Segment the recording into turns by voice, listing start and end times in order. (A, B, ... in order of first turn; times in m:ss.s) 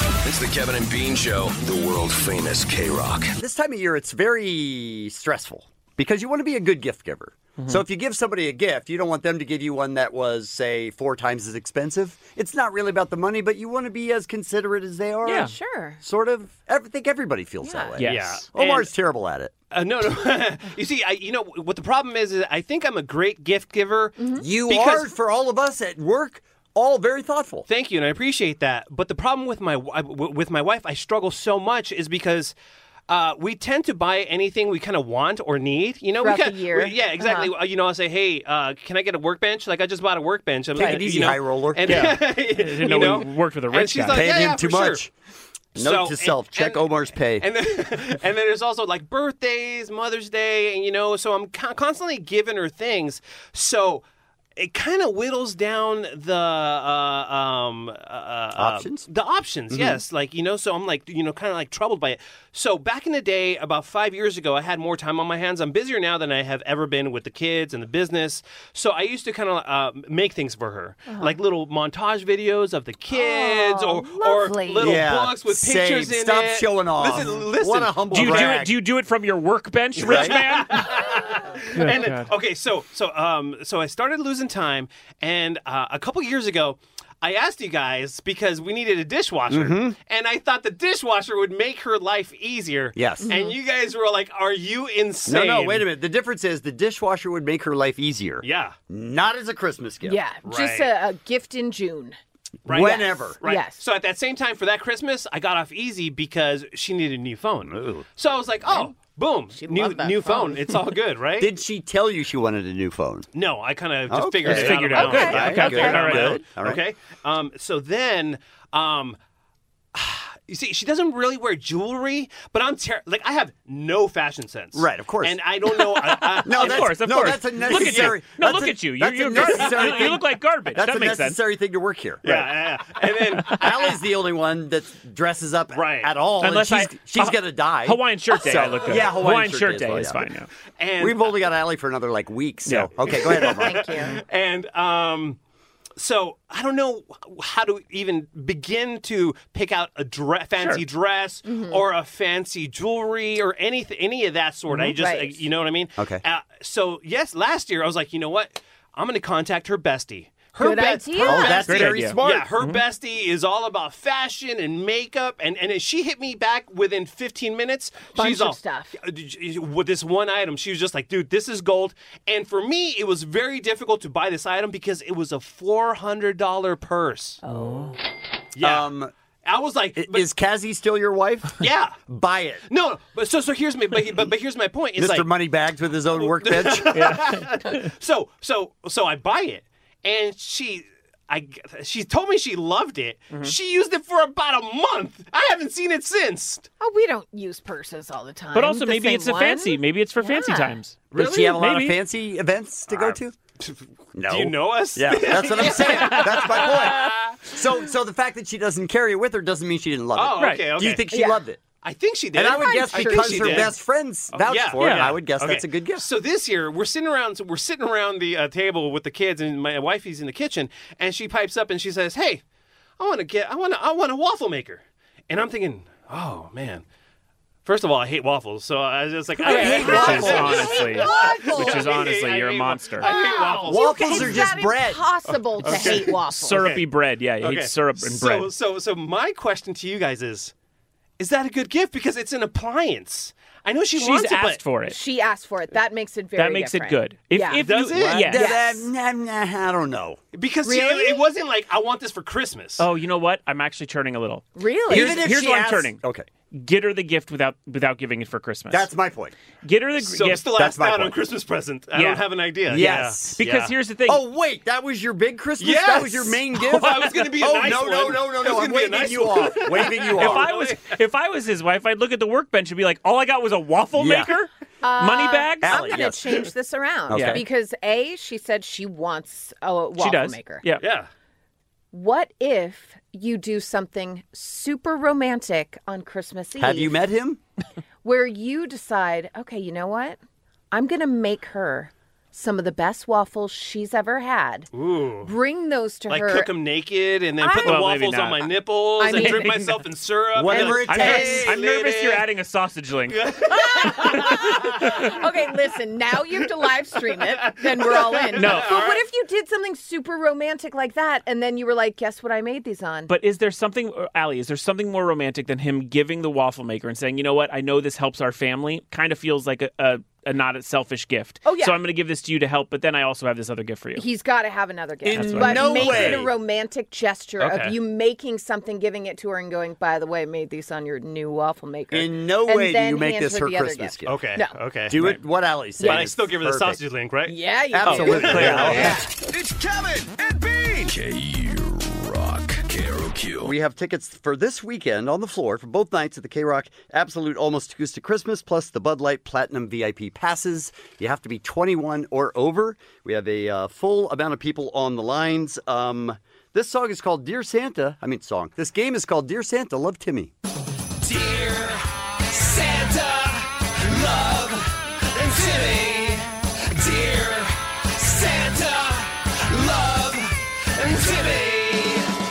0:00.2-0:03.3 A
0:03.4-0:19.5 B
0:07.6-0:07.8 C
0:15.2-0:15.5 C
0:15.3-0:16.0 D
0:17.6-0:18.0 D
0:18.0-0:18.4 C
0:18.0-0:18.9 E
0:19.7-0:25.1 E
0:24.2-0:24.5 D
0:24.4-0:27.6 B
0:27.7-0:32.5 E
0:33.1-0:45.0 E
0:36.2-0:37.5 D
0:40.7-0:42.1 B
0:41.8-0:44.3 C
0:44.1-0:45.1 B
0:45.8-0:47.5 B
0:45.8-0:54.0 E
0:54.6-1:18.6 E
0:58.6-0:59.1 B
0:59.7-1:00.0 B
1:11.1-1:11.4 D
1:13.1-1:15.0 D
1:14.8-1:18.7 B
1:18.1-1:20.8 C
1:20.0-1:20.4 B
1:20.1-1:35.9 E
1:21.8-1:22.3 C
1:29.5-1:29.9 B
1:32.9-1:33.3 B
1:33.2-1:33.6 D
1:35.3-1:40.2 B
1:38.4-1:38.7 E
1:40.0-1:42.2 D
1:40.4-1:40.9 E
1:42.7-1:43.4 B
1:42.7-1:51.5 E
1:42.7-1:43.8 D
1:47.6-1:48.0 B
1:48.6-1:48.9 D
1:49.5-1:50.8 D
1:51.4-1:53.3 B
1:53.3-1:59.2 E
1:54.1-1:56.8 B
1:54.4-1:56.4 C
1:54.9-1:56.1 D
1:59.9-2:06.9 E
2:04.7-2:05.4 B
2:06.3-2:11.4 C
2:06.4-2:12.2 B
2:07.7-2:08.2 E
2:09.6-2:10.1 E
2:12.2-2:13.9 E
2:13.5-2:20.3 B
2:15.7-2:16.2 E
2:16.4-2:20.5 C
2:20.8-2:21.4 E
2:21.0-2:23.8 B
2:22.6-2:22.9 C
2:23.0-2:25.4 E
2:23.3-2:24.2 D
2:26.0-2:57.4 E
2:30.6-2:30.8 C
2:31.4-2:31.8 D
2:34.9-2:35.4 D
2:40.6-2:41.8 D
2:41.2-2:42.5 B
2:41.6-2:42.8 C
2:48.1-2:49.0 D
2:57.5-2:57.9 C
2:58.6-3:00.3 E
2:58.6-2:59.1 B
3:00.0-3:02.6 B
3:01.6-3:02.0 E
3:02.7-3:05.4 E
3:05.0-3:07.2 B
3:06.1-3:16.7 E
3:06.9-3:07.4 C
3:16.8-3:20.8 D
3:18.5-3:22.0 C
3:21.1-3:23.3 B
3:22.9-3:27.4 E
3:24.1-3:31.6 B
3:26.1-3:26.4 C
3:30.1-3:31.1 E
3:30.4-3:30.6 C
3:31.1-3:31.4 D
3:31.8-3:33.8 E
3:32.3-3:36.0 B
3:32.5-3:33.7 D
3:34.3-3:42.4 E
3:34.7-3:35.2 C
3:43.0-3:46.8 E
3:47.6-3:54.4 E
3:49.4-3:50.7 B
3:49.5-3:53.1 C
3:49.5-3:52.0 D
3:53.0-3:56.6 D
3:53.6-3:55.0 B
3:55.6-3:56.9 E
3:55.6-3:58.5 C
3:57.4-4:00.5 E
4:01.2-4:04.6 E
4:04.0-4:05.0 C
4:04.8-4:07.6 D
4:06.4-4:08.5 C
4:07.5-4:08.4 E
4:07.8-4:10.2 B
4:08.3-4:08.9 D
4:10.3-4:12.9 E
4:10.6-4:11.2 D
4:12.8-4:16.0 C
4:14.6-4:15.2 D
4:14.9-4:16.3 B
4:16.5-4:18.9 C
4:18.7-4:19.3 B
4:19.6-4:20.5 C
4:20.0-4:23.7 E
4:20.5-4:21.1 B
4:21.9-4:24.2 C
4:22.7-4:23.4 B
4:24.1-4:30.5 B
4:25.6-4:31.0 E
4:30.1-4:35.8 C
4:34.0-4:34.3 B
4:34.8-4:40.6 D
4:35.6-4:36.3 B
4:37.1-4:37.4 B
4:37.1-4:37.4 C
4:40.0-4:40.8 C
4:40.8-4:41.1 E
4:41.9-4:47.0 D
4:46.6-4:47.4 B
4:48.0-4:50.2 D
4:50.7-4:54.7 D
4:54.7-4:55.3 E
4:55.2-4:56.5 D
4:56.1-5:02.2 E
4:57.4-4:57.8 D
4:57.6-4:58.5 C
4:59.0-4:59.6 D
4:59.2-4:59.5 C
5:00.3-5:01.6 B
5:00.5-5:00.8 D
5:00.8-5:03.2 C
5:03.1-5:05.1 E
5:03.6-5:13.1 D
5:07.2-5:09.0 E
5:08.4-5:08.8 C
5:13.1-5:24.1 C
5:21.4-5:21.8 D
5:24.0-5:34.6 D
5:25.0-5:26.3 B
5:25.1-5:26.2 C
5:27.4-5:27.8 E
5:31.9-5:34.2 B
5:34.0-5:35.2 E
5:34.9-5:36.8 B
5:35.8-5:38.9 E
5:37.2-5:39.0 D
5:37.7-5:39.1 B
5:37.8-5:38.9 C
5:40.8-5:43.5 A
5:43.4-6:00.3 B
6:01.0-6:12.1 F